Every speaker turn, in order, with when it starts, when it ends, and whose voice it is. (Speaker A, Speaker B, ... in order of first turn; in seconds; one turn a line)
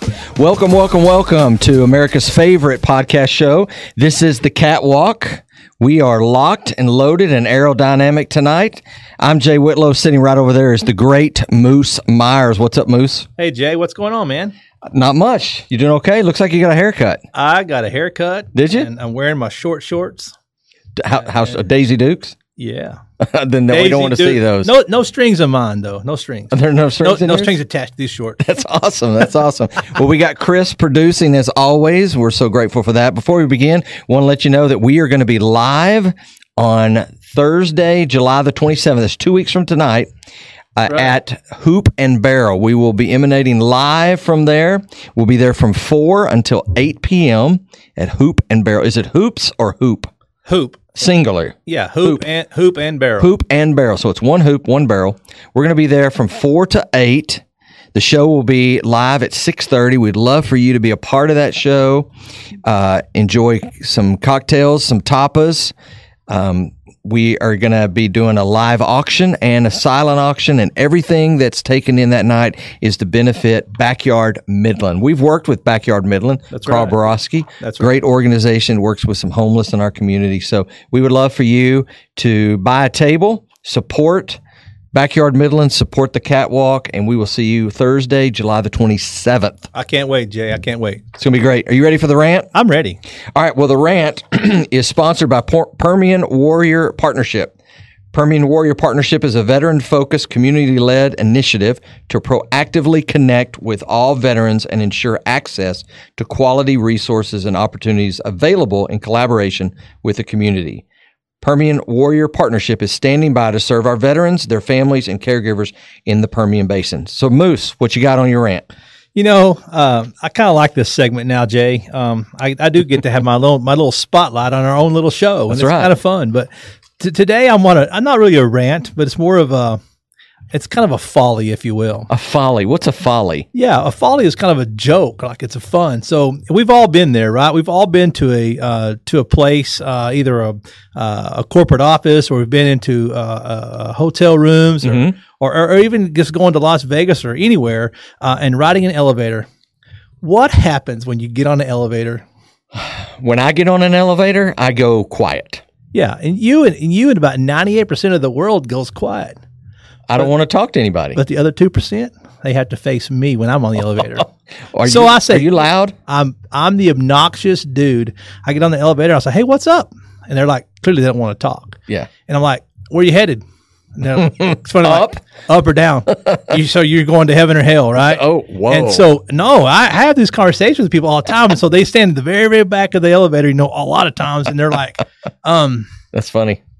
Speaker A: 0.3-13.3
Speaker B: 13.4-14.5
Speaker A: 14.8-17.2
Speaker B: 17.3-20.3
Speaker A: 18.5-18.9
Speaker A: 20.9-22.4
Speaker B: 22.6-23.0
Speaker A: 23.2-24.7
Speaker B: 23.7-28.4
Speaker A: 26.5-27.6
Speaker A: 28.4-40.1
Speaker A: 40.8-50.1
Speaker B: 50.5-50.8
Speaker A: 50.9-52.2
Speaker B: 51.6-53.3
Speaker A: 53.2-57.4
Speaker A: 57.9-62.1
Speaker A: 62.6-65.7
Speaker A: 66.3-84.4
Speaker B: 76.5-77.0
Speaker B: 77.6-77.9
Speaker A: 84.9-89.7
Speaker B: 89.7-91.0
Speaker A: 91.2-92.5
Speaker B: 92.5-93.0
Speaker A: 93.3-97.5
Speaker A: 98.1-110.8
Speaker A: 111.4-118.7
Speaker B: 119.1-129.8
Speaker A: 125.5-125.9
Speaker B: 130.5-132.1
Speaker A: 132.1-133.4
Speaker B: 133.5-149.5
Speaker A: 144.8-145.2
Speaker B: 150.2-152.2
Speaker A: 152.7-155.6
Speaker B: 155.9-159.4
Speaker A: 160.1-161.2
Speaker B: 161.2-164.3
Speaker A: 164.7-165.9
Speaker B: 164.8-173.4
Speaker B: 173.9-185.9
Speaker A: 174.7-175.2
Speaker A: 177.9-179.1
Speaker A: 186.1-186.6